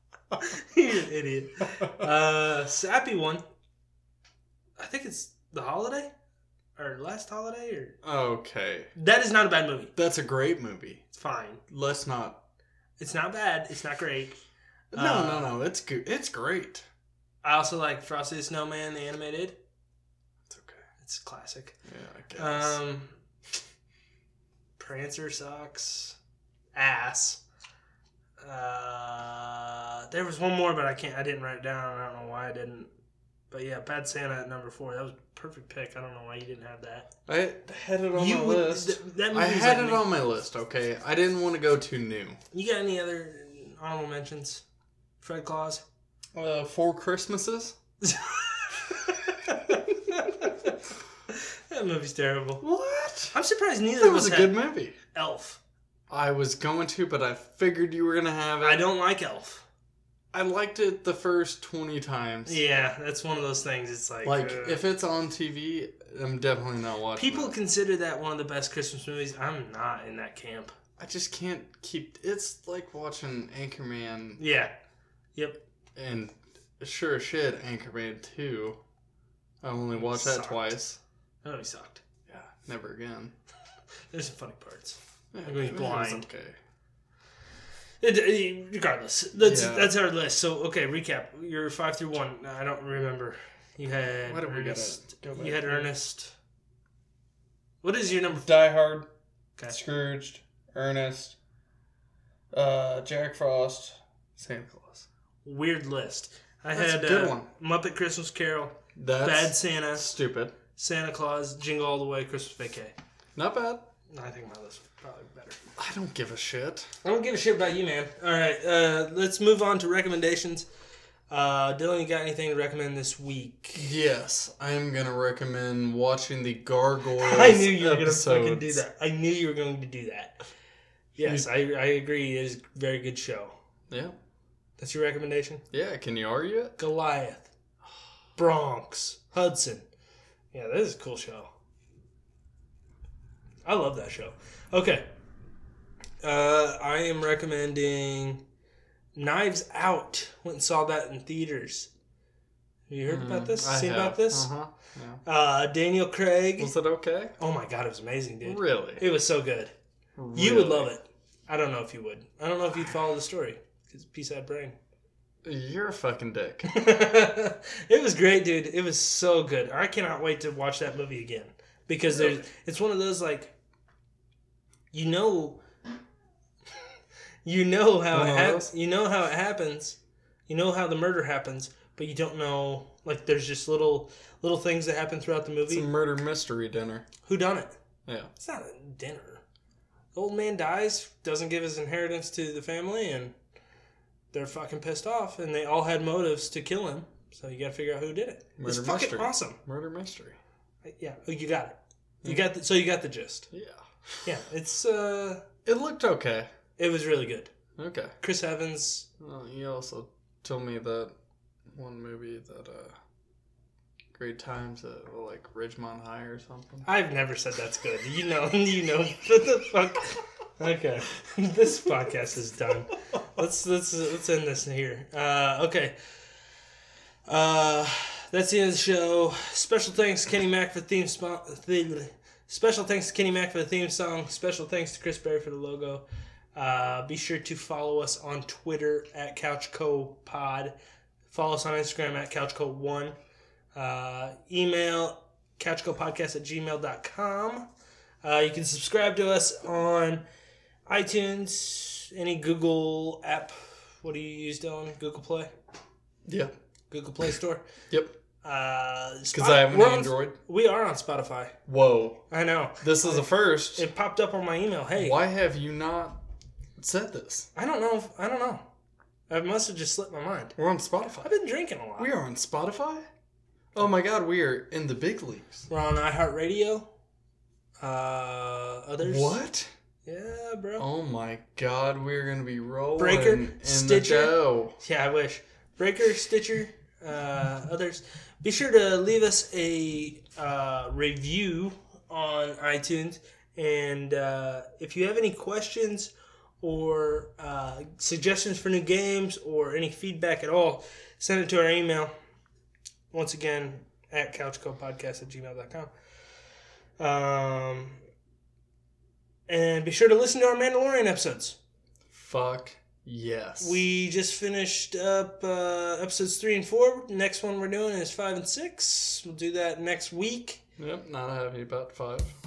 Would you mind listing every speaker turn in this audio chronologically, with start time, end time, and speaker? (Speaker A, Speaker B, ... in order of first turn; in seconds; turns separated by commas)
Speaker A: 0.4-3.4, Speaker A: 4.8-6.1, Speaker A: 6.8-8.0, Speaker B: 8.0-8.9, Speaker A: 8.9-9.9, Speaker B: 9.9-11.0, Speaker A: 11.1-11.6, Speaker B: 11.7-12.4, Speaker A: 13.0-14.4, Speaker B: 14.9-16.8, Speaker A: 14.9-15.5, Speaker A: 17.4-19.6, Speaker B: 20.5-20.8, Speaker A: 21.0-21.8, Speaker B: 21.9-22.8, Speaker A: 22.4-23.1, Speaker A: 24.8-26.2, Speaker A: 26.7-27.4, Speaker A: 28.4-32.9, Speaker A: 33.5-37.1, Speaker B: 37.3-42.4, Speaker A: 38.1-40.1, Speaker A: 42.5-44.6, Speaker A: 45.2-45.8, Speaker B: 46.3-47.8, Speaker A: 48.0-50.7, Speaker A: 51.3-52.6, Speaker B: 52.6-53.3, Speaker A: 53.3-54.6, Speaker B: 54.0-55.0, Speaker A: 55.1-55.6, Speaker B: 56.1-58.8, Speaker A: 58.6-59.6, Speaker B: 60.3-62.6, Speaker A: 62.5-64.8, Speaker B: 64.2-67.5, Speaker A: 67.1-70.7, Speaker B: 71.0-74.4, Speaker A: 74.4-74.7, Speaker A: 75.3-75.6, Speaker B: 76.0-78.8, Speaker B: 79.6-81.0, Speaker A: 79.9-80.7, Speaker A: 81.4-82.0, Speaker B: 82.3-83.3, Speaker A: 84.1-86.3, Speaker B: 85.3-86.5, Speaker A: 88.0-96.3, Speaker B: 89.3-89.9, Speaker B: 94.2-95.9, Speaker A: 97.8-98.5, Speaker B: 98.3-99.1, Speaker B: 99.7-101.3, Speaker B: 102.5-105.0, Speaker A: 105.4-110.1, Speaker B: 106.7-107.5, Speaker B: 108.9-110.5, Speaker A: 110.8-112.9, Speaker B: 113.3-113.9, Speaker A: 114.1-115.6, Speaker B: 115.8-116.9, Speaker A: 117.0-120.7, Speaker A: 121.3-123.9, Speaker B: 123.8-128.8, Speaker A: 127.2-130.4, Speaker A: 131.1-133.5, Speaker B: 133.9-134.2, Speaker A: 134.8-135.6, Speaker B: 135.7-136.8, Speaker A: 136.8-137.5, Speaker A: 138.4-139.8, Speaker A: 140.5-141.5, Speaker A: 143.6-145.1, Speaker A: 146.2-148.4, Speaker A: 149.2-151.9, Speaker A: 152.9-154.5, Speaker B: 153.1-155.2, Speaker A: 155.2-156.7, Speaker B: 156.6-157.3, Speaker A: 157.4-159.7, Speaker B: 158.4-159.0, Speaker B: 160.2-160.9, Speaker A: 160.3-164.8, Speaker B: 165.4-166.7, Speaker A: 166.7-173.5, Speaker B: 172.1-172.4, Speaker A: 174.9-175.6, Speaker A: 177.4-180.0, Speaker B: 178.1-178.7, Speaker A: 180.5-185.9, Speaker B: 185.7-187.0, Speaker A: 187.2-187.8, Speaker B: 188.1-188.3, Speaker A: 188.3-189.4, Speaker A: 190.1-193.3, Speaker A: 194.3-199.6, Speaker B: 198.6-200.4, Speaker A: 200.8-203.5, Speaker B: 203.5-204.2, Speaker A: 204.2-205.4, Speaker B: 205.6-206.5, Speaker A: 206.8-207.5, Speaker B: 207.8-208.1, Speaker A: 208.2-209.1, Speaker B: 209.2-211.1, Speaker B: 211.7-212.9, Speaker B: 214.1-216.9, Speaker A: 216.8-225.9, Speaker A: 227.3-236.0, Speaker A: 236.5-240.7, Speaker A: 241.3-243.1, Speaker A: 243.7-247.7, Speaker A: 248.2-250.2, Speaker A: 250.9-255.5, Speaker B: 256.2-256.5, Speaker A: 256.9-257.6, Speaker B: 257.9-258.1, Speaker A: 258.4-261.5, Speaker B: 259.3-260.4, Speaker B: 261.7-262.2, Speaker A: 262.3-265.2, Speaker B: 262.8-263.9, Speaker B: 265.0-266.2, Speaker B: 266.8-267.5, Speaker A: 267.5-268.6, Speaker A: 269.3-270.6, Speaker B: 270.6-271.3, Speaker A: 271.2-272.1, Speaker B: 272.0-273.1, Speaker B: 273.7-275.6, Speaker A: 275.7-276.9, Speaker A: 277.8-279.4, Speaker B: 279.0-279.7, Speaker A: 280.0-280.9, Speaker B: 280.8-284.7, Speaker A: 283.0-302.1, Speaker A: 303.1-305.9, Speaker A: 307.0-308.0, Speaker A: 309.5-311.6, Speaker B: 312.1-313.8, Speaker A: 313.6-320.6, Speaker B: 320.8-322.3